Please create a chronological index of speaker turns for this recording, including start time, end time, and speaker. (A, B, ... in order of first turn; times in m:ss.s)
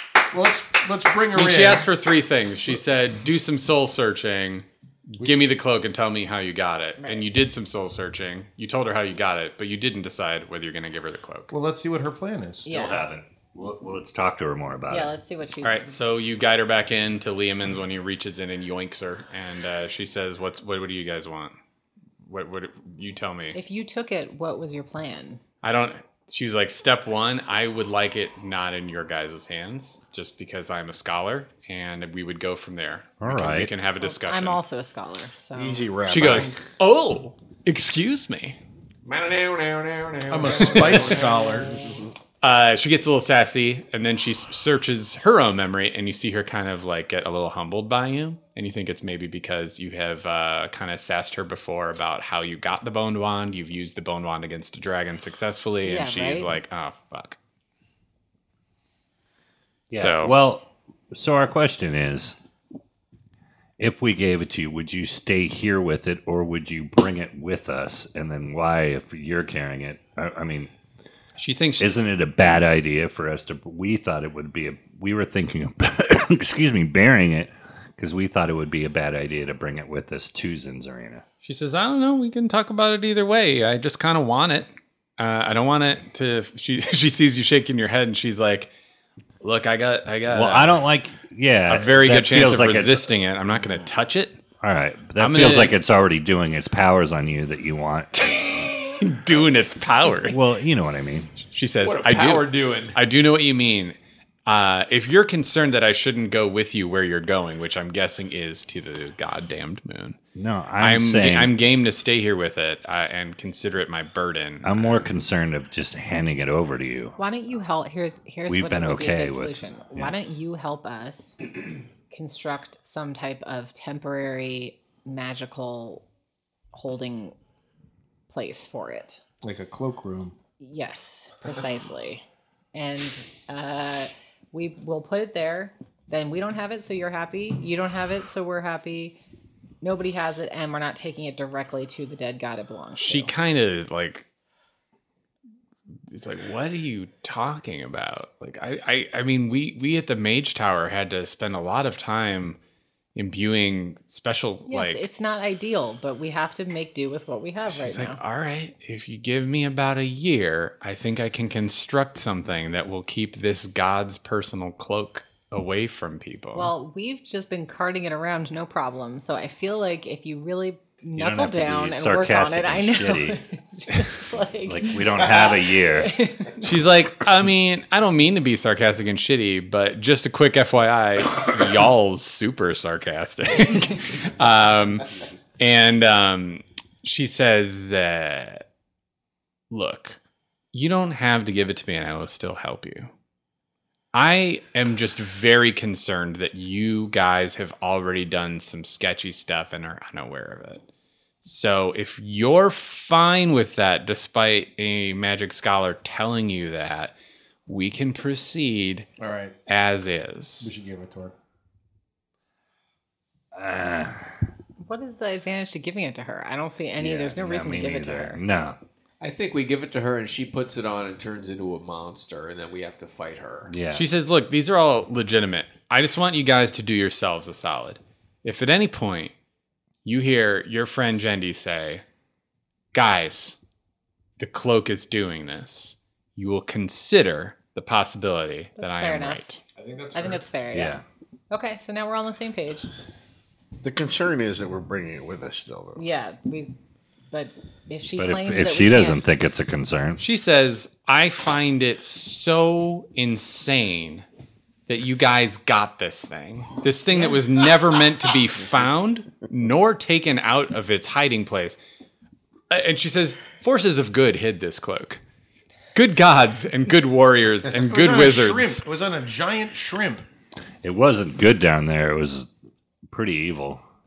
0:00.3-0:01.9 A
0:01.3-0:11.5 B
0:07.0-0:07.2 C
0:11.5-0:12.7 A
0:12.6-0:13.0 C
0:12.6-0:15.1 D
0:14.9-0:15.9 C
0:15.6-0:21.6 B
0:22.2-0:23.6 B
0:23.5-0:25.4 C
0:25.6-0:34.6 B
0:33.2-0:33.7 D
0:34.0-0:35.9 C
0:35.5-0:36.6 E
0:36.1-0:38.6 B
0:39.0-0:42.0 F
0:40.3-0:41.8 A
0:42.4-0:57.4 B
0:55.8-0:56.6 C
0:59.9-1:00.4 B
0:59.9-1:02.4 D
1:03.8-1:10.7 D
1:11.4-1:11.9 B
1:11.8-1:21.2 D
1:21.4-1:28.7 B
1:29.4-1:30.8 B
1:30.3-1:33.1 D
1:31.7-1:34.4 B
1:34.6-1:38.3 D
1:35.2-1:35.8 B
1:38.2-1:40.4 B
1:40.3-1:41.3 D
1:41.5-1:50.2 B
1:41.8-1:43.0 F
1:50.4-1:51.6 D
1:50.8-1:55.1 B
1:54.6-1:57.2 D
1:57.2-2:01.4 C
1:58.5-2:00.1 D
2:02.1-2:06.0 C
2:06.7-2:07.4 C
2:08.3-2:09.2 C
2:09.4-2:10.4 A
2:10.6-2:19.2 C
2:19.8-2:23.3 C
2:23.0-2:24.2 B
2:26.1-2:32.6 B
2:33.1-2:35.0 B
2:34.7-2:38.2 C
2:37.7-2:46.7 B
2:46.6-2:56.7 C
2:51.2-2:53.4 D
2:54.6-2:56.1 D
2:56.6-3:05.1 B
3:05.6-3:08.6 B
3:09.7-3:10.2 B
3:10.7-3:13.1 B
3:14.1-3:20.8 B
3:21.4-3:27.1 B
3:27.7-3:29.1 B
3:29.2-3:29.5 A
3:29.7-3:30.7 B
3:30.6-3:31.3 A
3:33.5-3:34.3 D
3:34.8-3:38.4 C
3:37.0-3:38.8 D
3:39.2-3:43.7 F
3:43.7-3:44.0 D
3:43.9-3:49.3 B
3:50.0-3:52.0 B
3:52.9-3:53.6 B
3:54.4-3:59.6 B
3:58.8-3:59.4 C
3:59.8-4:00.4 A
4:00.1-4:02.9 C
4:00.7-4:01.0 D
4:03.8-4:06.0 E
4:06.0-4:06.7 C
4:07.3-4:09.2 C
4:08.2-4:10.2 D
4:10.2-4:14.2 B
4:14.9-4:21.8 B
4:22.7-4:25.2 B
4:26.0-4:28.8 B
4:27.9-4:30.3 A
4:30.8-4:32.5 D
4:33.1-4:33.8 D